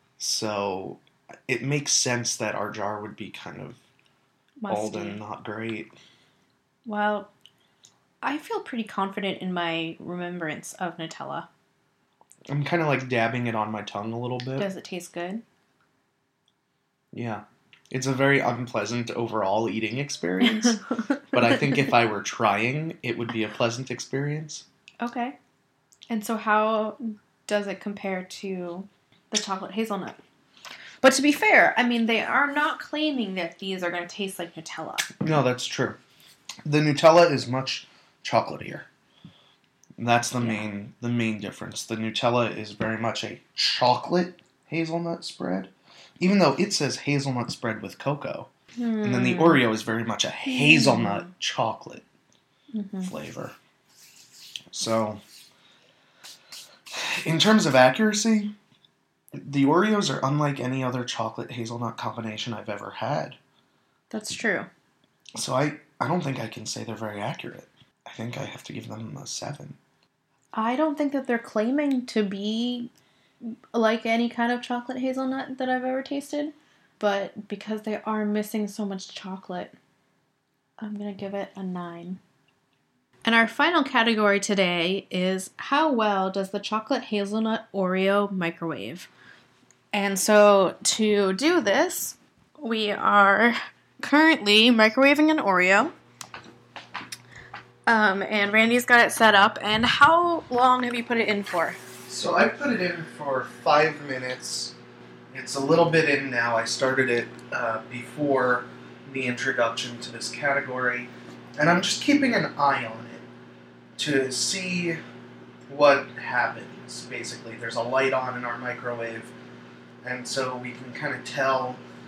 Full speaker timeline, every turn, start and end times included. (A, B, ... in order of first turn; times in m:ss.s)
0:00.2-0:03.8 A
0:04.6-0:05.2 B
0:04.7-0:05.9 A
0:06.9-0:07.3 B
0:08.2-0:11.5 B
0:12.5-0:14.7 A
0:14.6-0:15.4 B
0:17.1-0:20.8 A
0:21.3-0:24.6 A
0:25.0-0:25.4 B
0:26.1-0:30.2 B
0:31.0-0:35.1 B
0:35.2-0:36.0 A
0:36.6-0:38.9 A
0:40.0-0:48.5 A
0:48.8-0:49.6 B
0:49.0-0:52.0 A
0:50.5-0:51.2 B
0:52.7-0:53.1 B
0:53.0-0:53.6 A
0:54.7-0:55.2 A
0:56.9-0:58.5 A
0:59.3-1:03.4 A
1:04.1-1:04.7 B
1:05.4-1:09.8 A
1:10.5-1:12.9 B
1:13.4-1:19.8 B
1:20.8-1:22.2 B
1:23.2-1:29.1 B
1:29.9-1:35.9 B
1:37.9-1:41.8 B
1:42.1-1:44.8 A
1:45.3-1:53.3 A
1:54.0-1:55.0 A
1:55.7-1:59.3 A
2:00.0-2:01.8 A